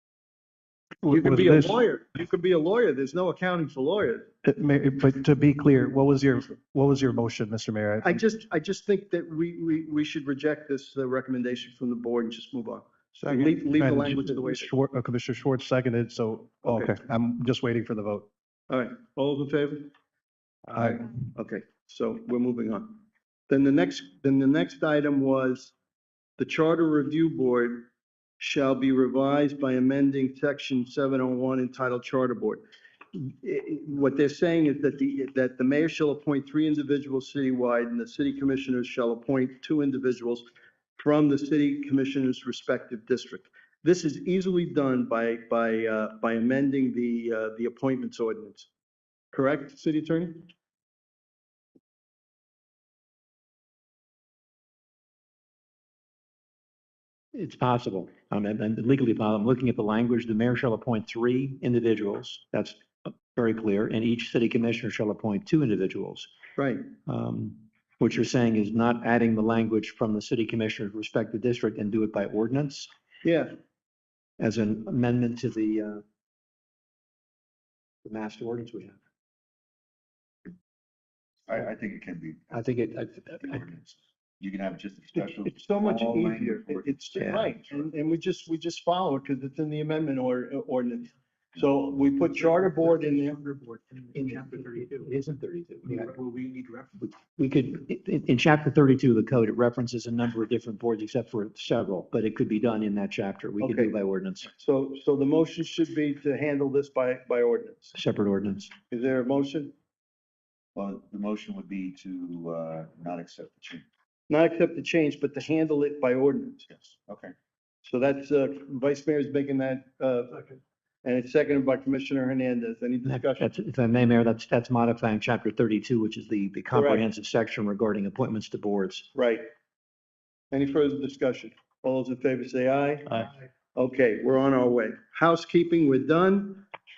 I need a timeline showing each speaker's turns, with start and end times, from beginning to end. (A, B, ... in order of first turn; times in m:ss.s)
0:01.0-0:01.8 A
0:01.1-0:04.3 B
0:04.4-0:08.2 A
0:08.0-0:14.7 B
0:13.2-0:18.3 A
0:16.6-0:17.0 B
0:18.7-0:19.9 B
0:20.7-0:21.1 A
0:21.3-0:25.7 B
0:26.4-0:48.7 B
0:49.3-0:50.5 B
0:57.3-1:06.3 C
1:06.6-1:06.8 B
1:07.1-1:12.9 C
1:13.2-1:13.5 B
1:14.4-1:16.0 C
1:18.0-1:19.0 C
1:21.5-1:22.6 D
1:22.5-1:23.7 C
1:23.4-1:27.6 D
1:25.5-1:33.5 B
1:33.7-1:36.2 C
1:37.0-1:44.5 C
1:43.6-1:44.0 B
1:44.5-1:47.9 B
1:47.9-1:48.7 C
1:48.9-1:49.7 B
1:50.8-1:53.8 D
1:54.3-1:56.7 B
1:56.7-1:57.3 D
1:57.8-2:03.5 B
2:03.0-2:09.1 C
2:06.7-2:07.0 B
2:09.2-2:09.5 B
2:10.5-2:16.7 B